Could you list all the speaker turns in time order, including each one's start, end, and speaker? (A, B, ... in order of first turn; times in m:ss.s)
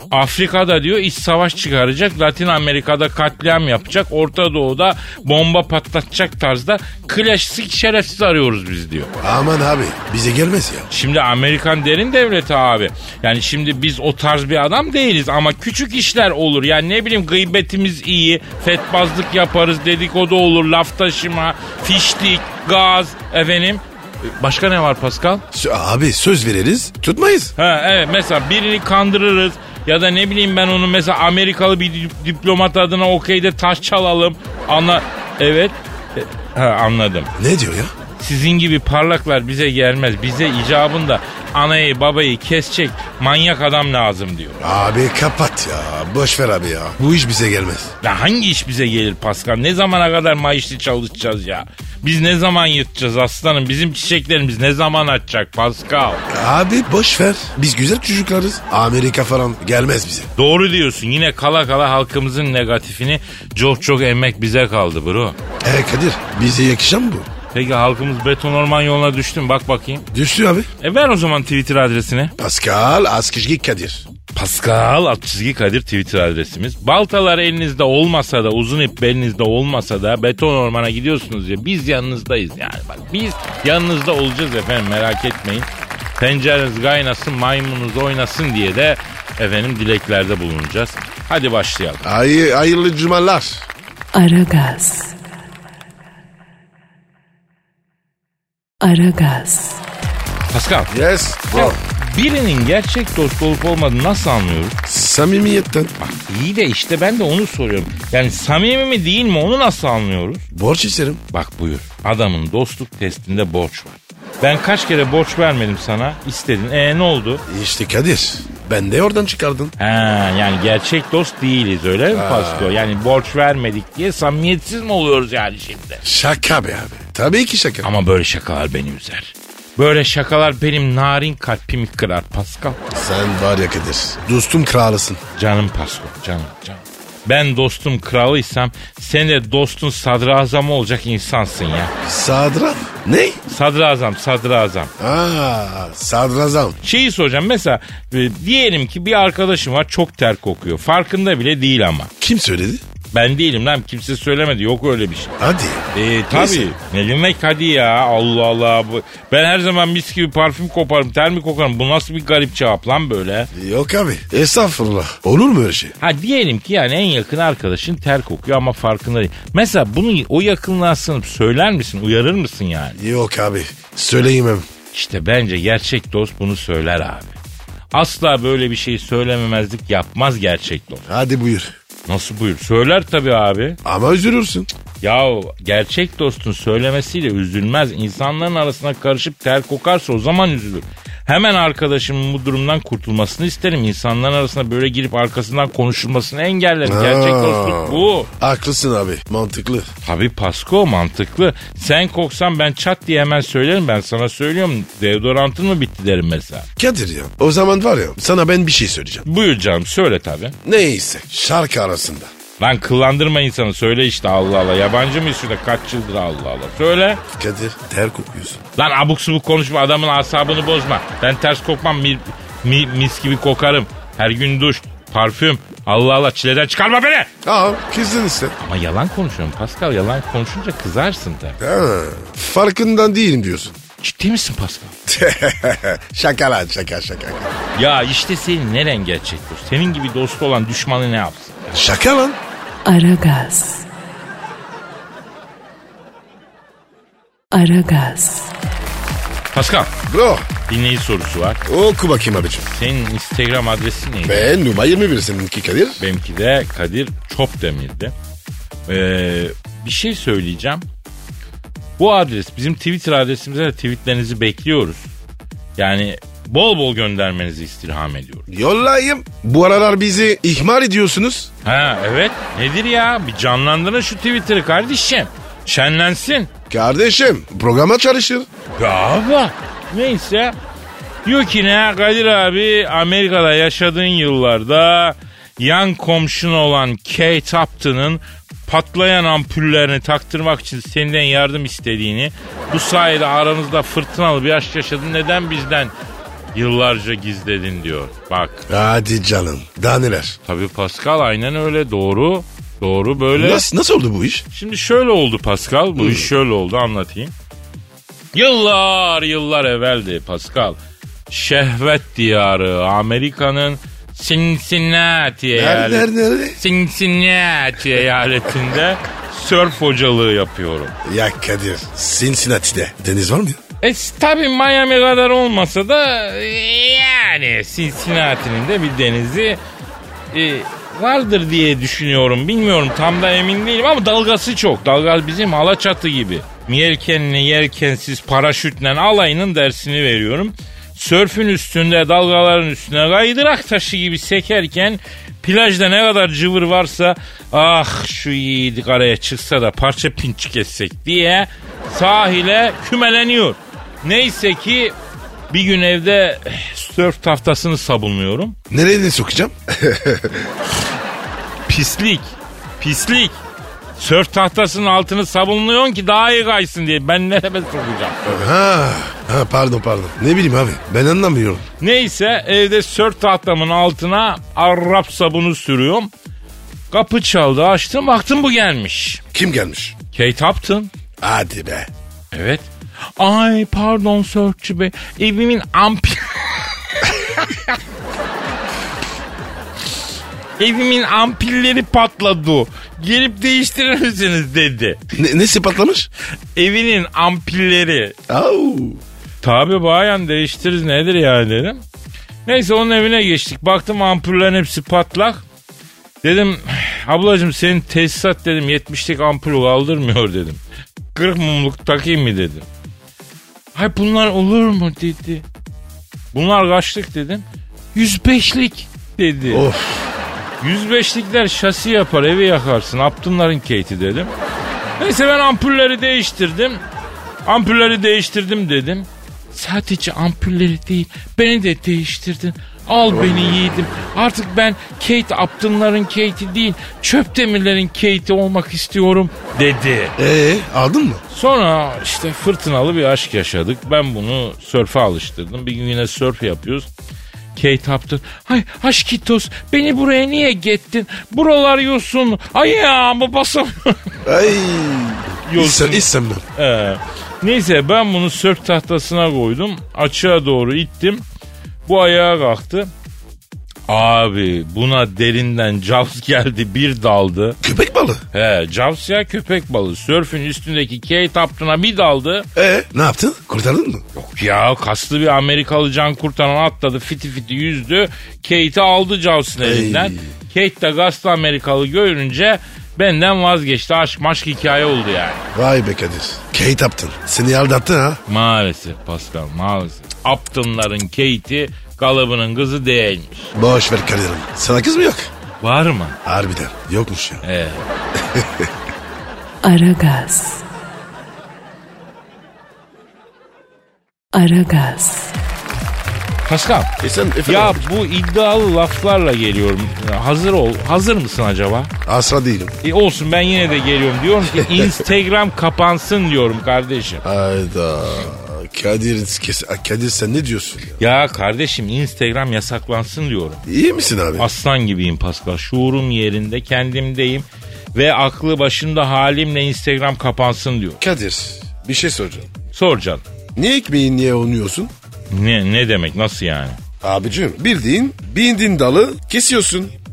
0:00.1-0:09.1 A
0:09.2-0:10.9 B
0:10.9-0:25.4 A
0:25.5-0:27.5 B
0:27.6-0:37.3 A
0:37.4-0:37.9 B
0:38.2-0:44.6 A
0:44.6-0:47.9 B
0:48.0-0:56.2 A
0:56.3-1:00.3 B
1:00.4-1:05.4 A
1:05.6-1:07.3 B
1:07.5-1:10.0 A
1:10.1-1:10.7 B
1:10.8-1:12.3 A
1:12.4-1:14.1 B
1:14.3-1:32.0 A
1:32.0-1:33.7 B
1:34.1-1:35.2 C
1:38.8-1:39.8 C
1:40.5-1:40.9 A
1:40.9-1:41.8 B
1:41.5-1:44.8 A
1:44.8-1:45.9 B
1:46.0-1:50.4 A
1:50.5-1:51.2 B
1:51.3-1:57.4 A
1:57.5-1:59.7 B
1:59.8-2:06.0 A
2:02.1-2:02.8 B
2:06.0-2:07.9 B
2:07.8-2:12.8 A
2:12.9-2:15.2 B
2:15.4-2:21.9 A
2:22.0-2:23.4 B
2:23.5-2:24.9 A
2:25.0-2:26.8 B
2:26.8-2:32.1 A
2:32.2-2:32.8 B
2:33.1-2:35.4 A
2:35.4-2:36.7 B
2:35.9-2:43.5 A
2:43.5-2:46.0 B
2:46.0-2:53.0 A
2:53.0-2:54.7 B
2:54.9-2:57.4 A
2:57.9-3:01.0 A
3:01.1-3:01.7 B
3:02.1-3:03.8 A
3:03.8-3:04.7 B
3:05.0-3:18.3 A
3:16.8-3:19.9 B
3:20.0-3:26.7 A
3:26.8-3:29.3 B
3:29.3-3:30.6 A
3:30.6-3:32.3 B
3:32.6-3:37.2 A
3:37.3-3:38.6 B
3:38.8-3:47.3 A
3:47.4-3:48.6 B
3:48.6-3:51.6 A
3:51.6-3:53.8 B
3:54.0-3:55.0 A
3:55.1-3:57.6 B
3:57.8-4:01.6 A
4:01.7-4:02.4 B
4:02.8-4:03.9 C
4:07.5-4:08.5 C
4:09.5-4:09.9 A
4:10.1-4:10.5 B
4:10.7-4:11.6 A
4:11.6-4:12.7 B
4:12.7-4:14.6 A
4:14.3-4:16.0 B
4:16.0-4:18.1 A
4:18.9-4:20.8 A
4:22.0-4:25.1 A
4:25.8-4:28.5 A
4:28.5-4:31.5 B
4:31.6-4:36.5 A
4:36.7-4:38.5 B
4:38.8-4:40.6 A
4:41.2-4:55.9 A
4:56.5-4:58.7 A
4:58.7-5:00.4 B
5:00.5-5:03.7 A
5:03.4-5:04.5 B
5:04.5-5:07.3 A
5:06.0-5:06.3 B
5:08.3-5:10.8 A
5:11.3-5:20.9 A
5:15.5-5:16.6 B
5:21.0-5:23.6 B
5:23.8-5:29.6 A
5:30.3-5:55.0 A
5:55.5-5:58.6 A
5:58.7-6:00.5 B
6:01.7-6:03.4 A
6:04.0-6:08.5 A
6:08.3-6:11.7 B
6:11.8-6:16.1 A
6:16.9-6:19.2 A
6:19.3-6:20.0 B
6:20.1-6:20.9 A
6:21.2-6:21.9 B
6:22.3-6:27.8 A
6:30.6-6:35.0 A
6:35.2-6:36.1 B
6:36.6-6:38.2 A
6:38.3-6:39.0 B
6:39.4-6:41.8 A
6:42.5-6:45.4 A
6:46.2-6:50.6 A
6:51.1-6:52.7 A
6:53.7-6:55.5 A
6:56.3-6:59.6 A
6:59.5-7:00.2 B
7:00.6-7:04.3 A
7:05.0-7:06.8 A
7:07.5-7:20.2 A
7:13.1-7:14.1 B
7:20.2-7:21.2 B
7:21.3-7:26.9 A
7:27.6-7:34.2 A
7:34.2-7:36.4 B
7:35.5-7:41.2 A
7:41.9-7:42.9 A
7:43.9-7:47.6 A
7:47.6-7:48.2 B
7:48.3-7:52.5 A
7:52.6-7:54.0 B
7:54.2-8:05.4 A
7:59.6-8:00.4 B
8:05.5-8:08.2 B
8:08.3-8:13.5 A
8:13.6-8:15.3 B
8:15.6-8:16.2 A
8:16.2-8:17.4 B
8:17.4-8:17.9 A
8:18.2-8:18.7 B
8:19.6-8:20.6 C
8:24.3-8:25.3 C
8:26.5-8:26.9 A
8:27.0-8:27.8 B
8:27.4-8:31.9 A
8:32.0-8:32.7 B
8:32.8-8:37.2 A
8:34.5-8:35.0 B
8:37.2-8:41.0 B
8:41.0-8:43.6 A
8:43.7-8:44.5 B
8:44.4-8:51.0 A
8:51.0-8:52.5 B
8:52.7-8:53.2 A
8:53.6-8:54.9 B
8:55.3-8:56.8 A
8:57.0-9:00.0 B